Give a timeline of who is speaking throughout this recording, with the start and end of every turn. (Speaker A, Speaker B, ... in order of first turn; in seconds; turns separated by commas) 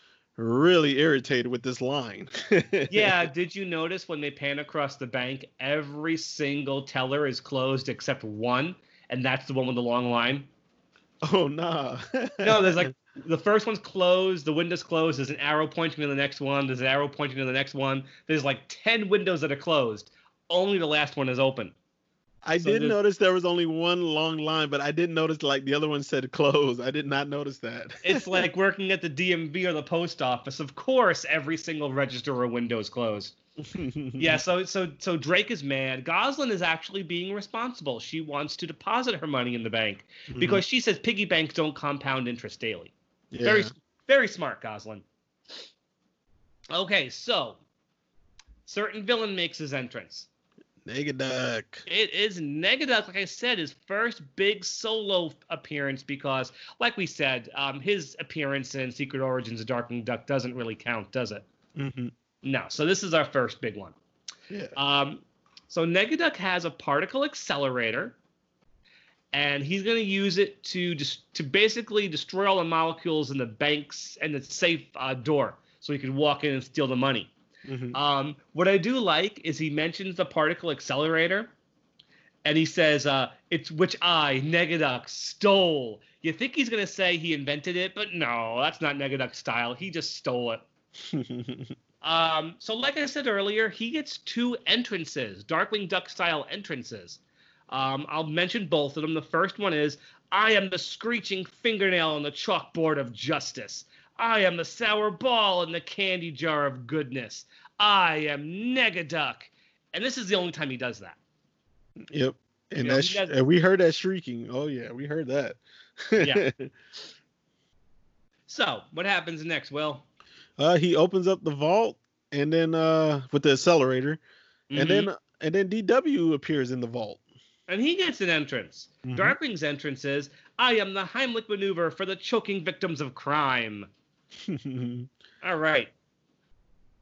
Speaker A: 0.4-3.2, Speaker B: 2.9-10.5, Speaker A: 11.2-12.9, Speaker B: 12.4-21.8, Speaker A: 22.4-28.4, Speaker B: 22.6-23.0, Speaker B: 28.1-33.4, Speaker A: 33.6-34.4, Speaker B: 34.2-45.0, Speaker A: 40.3-40.6, Speaker A: 43.3-43.7, Speaker B: 46.7-47.6, Speaker B: 48.7-50.3, Speaker A: 50.9-51.9, Speaker B: 51.9-61.4, Speaker A: 61.8-62.1, Speaker B: 62.4-64.0, Speaker B: 64.8-68.2, Speaker B: 69.3-77.3, Speaker A: 77.7-78.0, Speaker B: 77.9-81.5, Speaker B: 82.5-90.6, Speaker A: 91.0-91.7, Speaker B: 92.0-111.2, Speaker A: 112.1-116.7, Speaker B: 112.8-113.3, Speaker B: 116.2-116.5, Speaker B: 118.5-120.1, Speaker A: 120.6-124.2, Speaker B: 124.7-125.1, Speaker A: 124.8-127.2, Speaker B: 127.7-133.9, Speaker A: 129.0-129.4, Speaker A: 134.5-135.1, Speaker B: 135.4-135.9